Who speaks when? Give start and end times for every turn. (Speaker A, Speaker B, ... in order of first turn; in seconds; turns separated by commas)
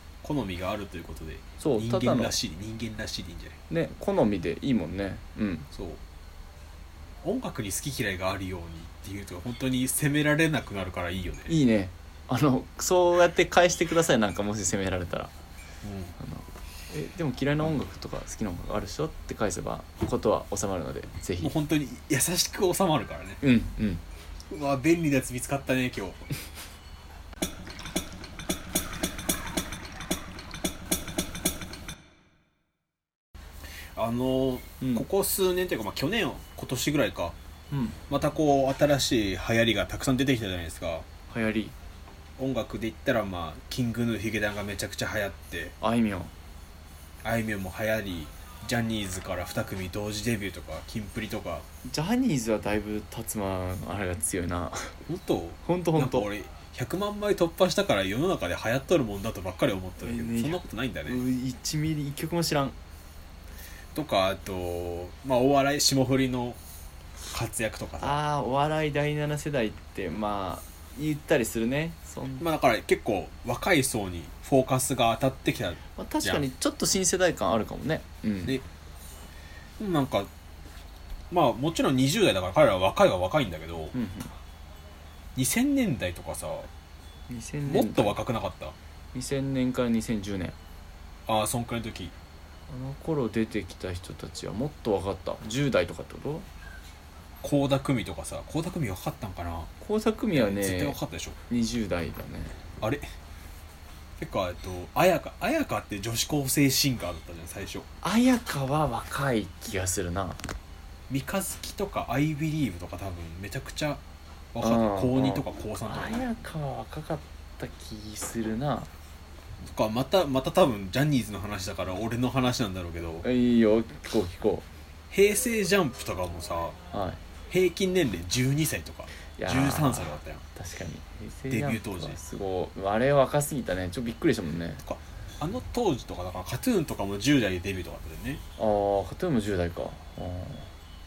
Speaker A: 0.2-3.6, Speaker B: 1.6-2.4, Speaker B: 3.7-5.7, Speaker A: 5.7-6.0, Speaker A: 7.2-11.5, Speaker B: 11.5-15.3, Speaker A: 15.8-16.1, Speaker B: 16.2-21.5, Speaker A: 21.4-23.4, Speaker B: 23.4-24.0, Speaker A: 24.5-26.2, Speaker A: 34.0-37.4, Speaker B: 34.8-35.1, Speaker B: 37.7-38.0, Speaker A: 38.1-41.0, Speaker B: 41.3-41.7, Speaker A: 42.4-45.7, Speaker B: 45.8-46.3, Speaker A: 47.2-51.6, Speaker B: 51.8-54.9, Speaker A: 55.0-61.2, Speaker B: 55.6-56.3, Speaker B: 60.0-62.8, Speaker A: 63.9-66.6, Speaker A: 67.3-68.2, Speaker B: 68.0-72.4, Speaker A: 72.4-76.4, Speaker B: 76.0-78.6, Speaker A: 79.8-80.3, Speaker A: 81.3-83.9, Speaker B: 83.9-84.3, Speaker A: 85.3-86.7, Speaker B: 87.3-88.2, Speaker A: 87.7-88.7, Speaker B: 89.1-90.6, Speaker A: 91.3-92.1, Speaker B: 92.7-96.5, Speaker A: 97.4-99.7, Speaker B: 99.8-101.0, Speaker A: 100.3-101.4, Speaker B: 101.5-102.6, Speaker A: 102.8-103.0, Speaker A: 104.2-107.9, Speaker B: 108.0-110.4, Speaker A: 111.1-114.0, Speaker A: 114.5-116.2, Speaker B: 114.6-118.9, Speaker A: 119.7-123.2, Speaker B: 123.2-124.7, Speaker A: 125.1-126.8, Speaker B: 126.9-127.2, Speaker A: 127.5-130.4, Speaker B: 129.4-134.8, Speaker A: 131.5-132.2, Speaker A: 134.8-138.4, Speaker B: 138.6-140.7